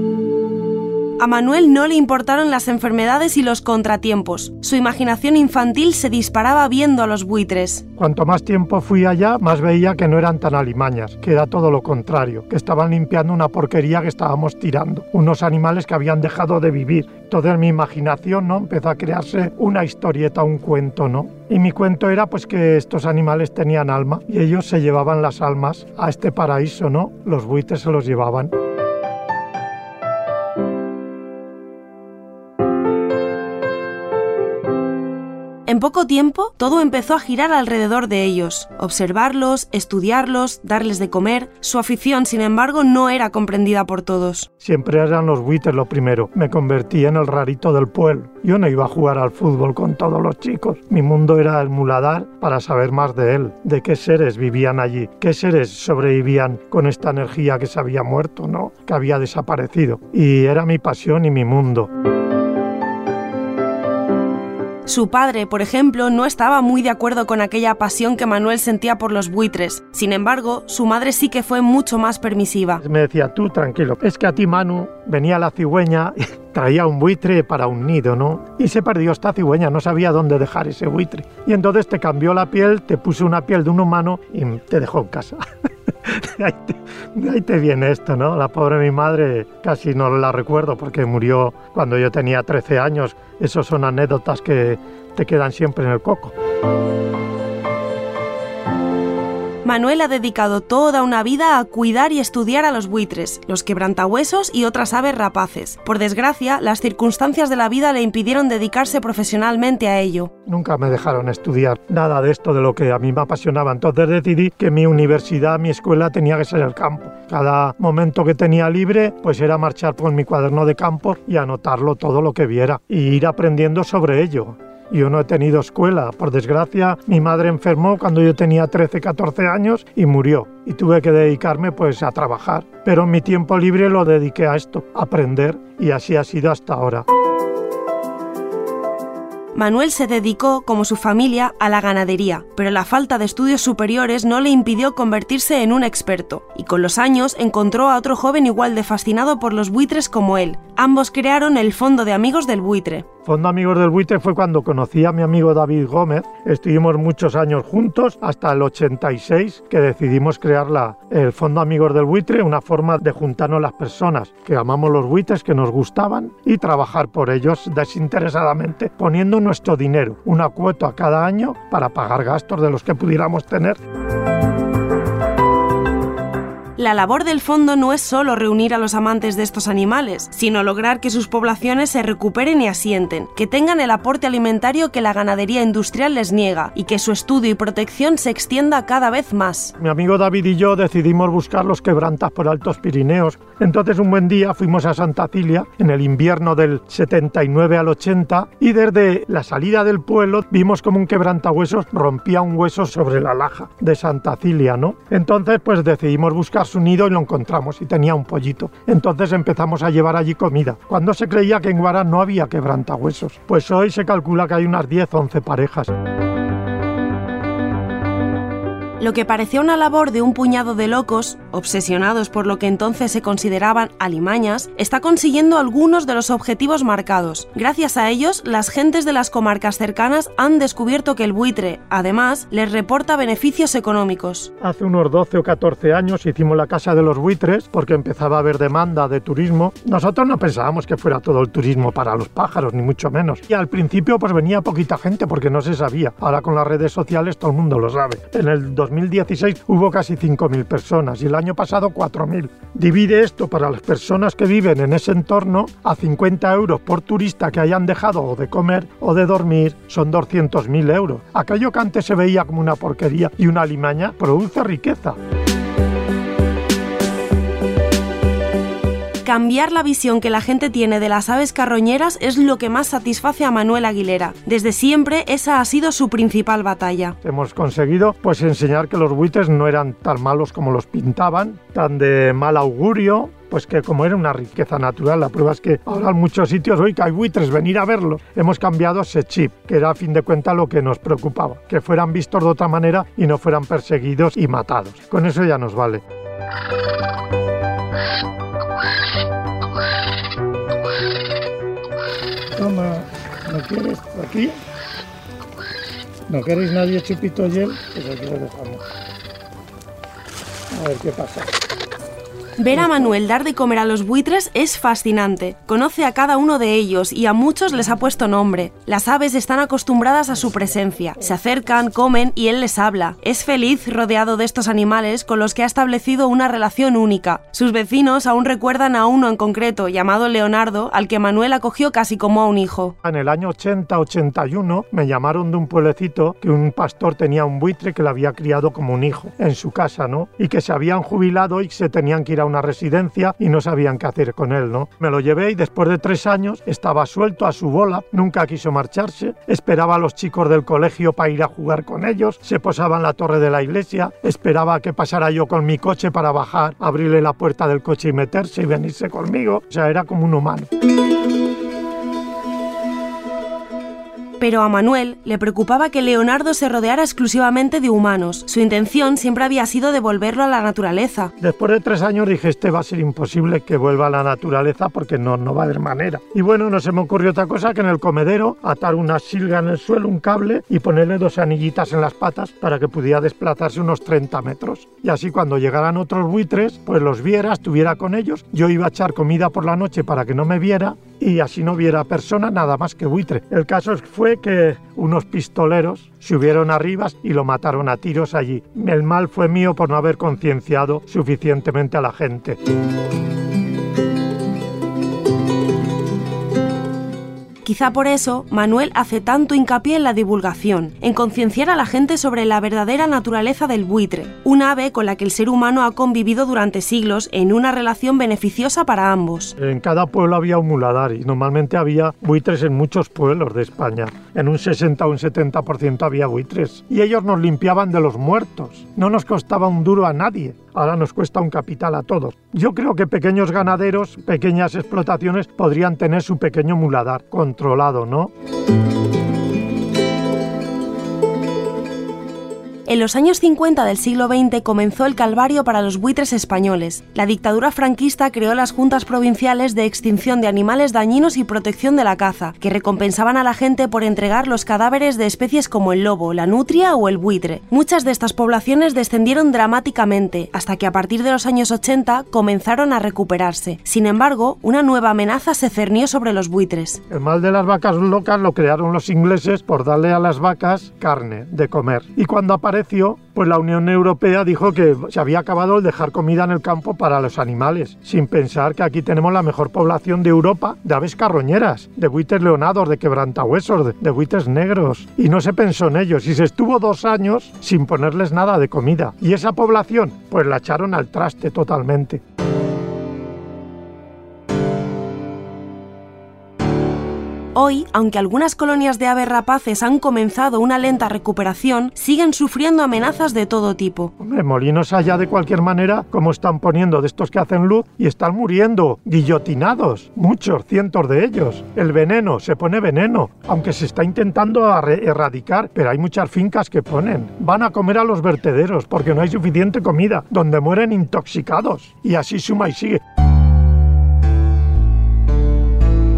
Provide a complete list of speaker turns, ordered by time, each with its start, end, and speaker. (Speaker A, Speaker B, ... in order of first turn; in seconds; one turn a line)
Speaker A: 1.2-7.8
Speaker B: 8.0-28.5
Speaker A: 35.7-44.5
Speaker B: 44.6-61.9
Speaker A: 64.9-72.8
Speaker B: 72.8-96.3
Speaker A: 99.6-110.3
Speaker B: 110.5-137.1
Speaker A: 139.5-153.1
Speaker B: 153.3-173.8
Speaker A: 176.8-189.7
Speaker B: 189.8-215.9
Speaker A: 219.0-234.5
Speaker B: 234.6-265.2
Speaker A: 269.2-277.2
Speaker B: 277.2-296.0
Speaker B: 302.6-304.6
Speaker B: 306.3-308.8
Speaker B: 310.7-311.5
Speaker A: 312.6-332.9
Speaker B: 312.7-313.1
Speaker B: 333.0-360.7
Speaker A: 364.4-371.3
Speaker B: 371.4-402.6
Speaker A: 407.6-419.6
Speaker B: 419.6-438.3
Speaker A: 442.9-467.0
Speaker B: 467.1-492.2
Speaker A: 497.6-504.1
Speaker B: 504.2-523.0